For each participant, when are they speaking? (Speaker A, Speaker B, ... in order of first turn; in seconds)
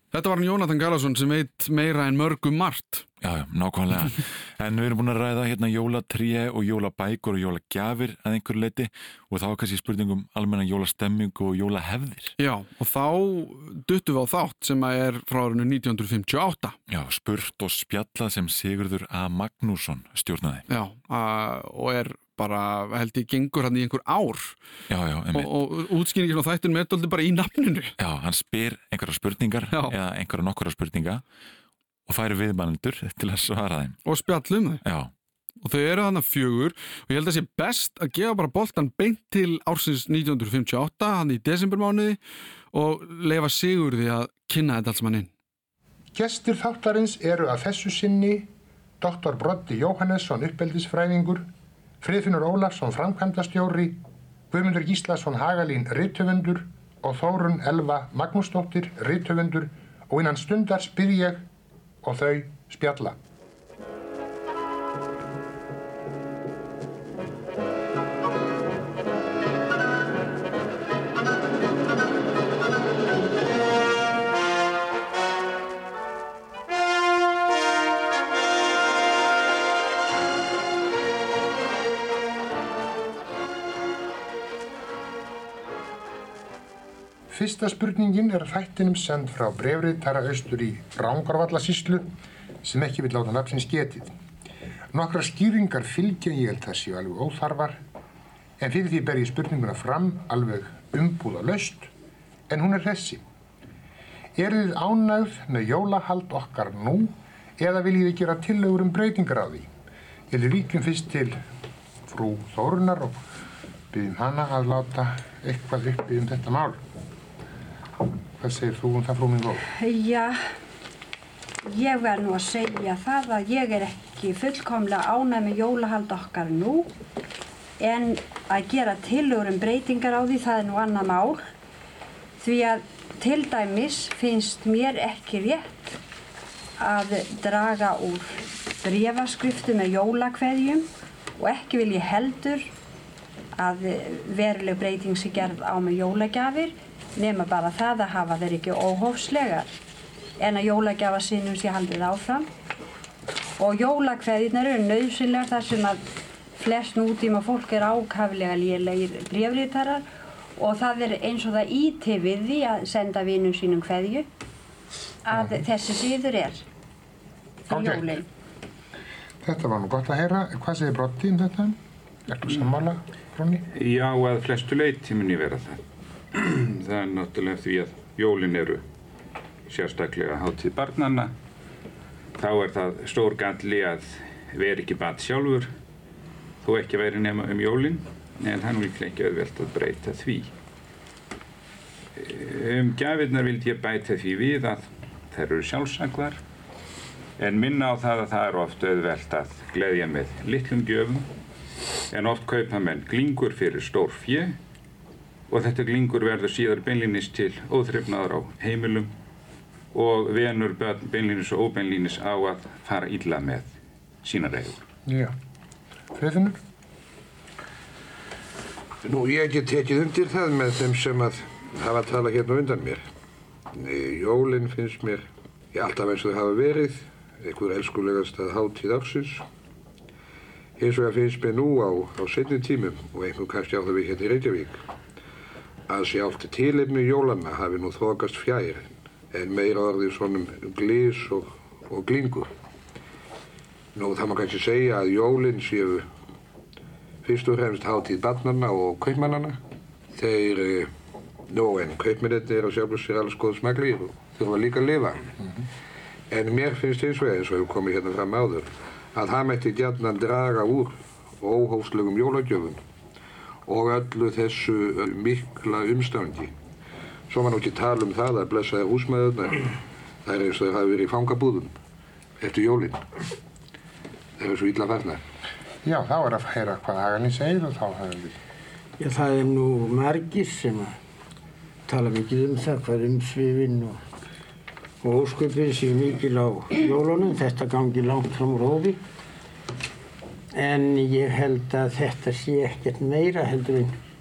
Speaker A: 0.1-3.1, 12.4-16.8, 20.7-24.6, 25.3-27.9, 29.7-30.0, 34.1-34.8, 35.6-42.2, 42.7-45.3
Speaker B: 3.2-12.3, 16.9-20.6, 24.9-25.5, 28.0-31.2, 32.1-34.0, 34.8-35.1
Speaker C: 46.1-48.5, 49.0-51.5, 52.0-54.0, 54.5-61.5, 62.0-63.2, 87.3-92.1, 92.6-94.1, 94.9-97.8, 98.6-101.9, 102.5-103.2, 104.4-109.7, 110.3-111.4, 112.1-113.2, 113.9-116.8, 118.4-119.6, 165.3-165.6, 167.7-168.1, 169.4-173.6, 215.1-215.3, 216.1-216.6, 255.4-255.7, 275.8-278.3
Speaker D: 119.7-120.4, 121.7-126.9, 127.8-131.4, 132.4-136.0, 136.8-140.9, 141.4-142.7, 143.6-149.7, 150.4-152.5, 153.6-156.0, 156.6-160.1, 160.6-164.3, 165.3-166.6, 167.7-168.3
Speaker E: 173.7-175.8, 176.4-178.8, 179.7-181.3, 182.4-185.7, 186.6-190.5, 192.2-196.4, 197.4-201.3, 202.1-204.6, 205.5-209.1, 209.9-213.7, 214.2-214.8
Speaker F: 219.1-223.0, 223.7-229.4, 230.8-234.8, 235.9-242.5, 243.9-246.1, 247.2-249.6, 250.1-250.9, 251.5-255.3, 256.3-262.8, 263.7-266.5, 267.3-269.7, 270.2-271.7, 272.4-273.0, 274.4-275.2
Speaker G: 279.0-281.0, 281.9-284.0, 285.0-289.0, 290.5-293.9